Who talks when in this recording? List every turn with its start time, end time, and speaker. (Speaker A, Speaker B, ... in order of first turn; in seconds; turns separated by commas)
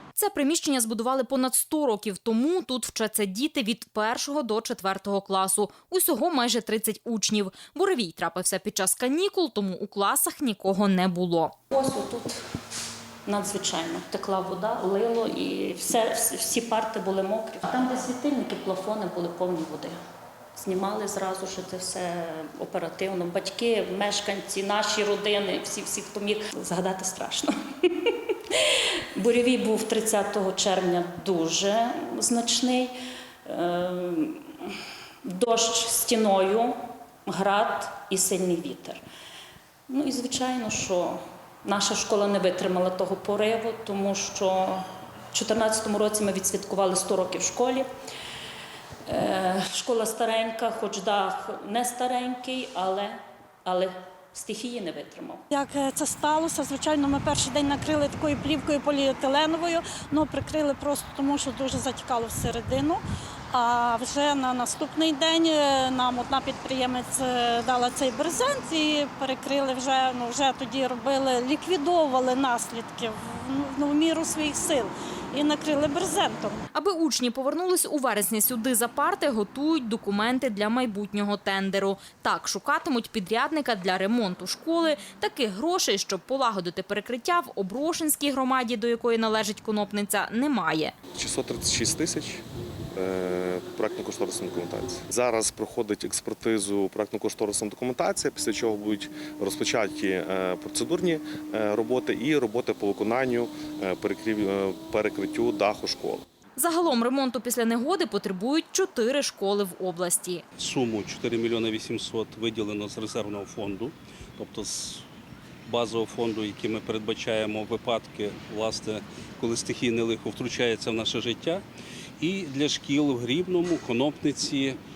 Speaker A: 0.1-11.6, Speaker B: 11.7-12.4, Speaker B: 13.3-20.0, Speaker B: 20.6-28.6, Speaker B: 29.1-32.9, Speaker B: 33.5-34.7, Speaker B: 35.2-36.7, Speaker B: 37.3-39.0, Speaker B: 39.9-47.9, Speaker B: 49.1-55.4, Speaker C: 55.5-63.0, Speaker C: 63.5-76.6, Speaker A: 76.7-90.9, Speaker D: 91.2-92.4, Speaker D: 93.0-106.2, Speaker A: 106.6-110.4, Speaker E: 110.6-115.0, Speaker E: 115.7-121.6, Speaker E: 122.2-124.8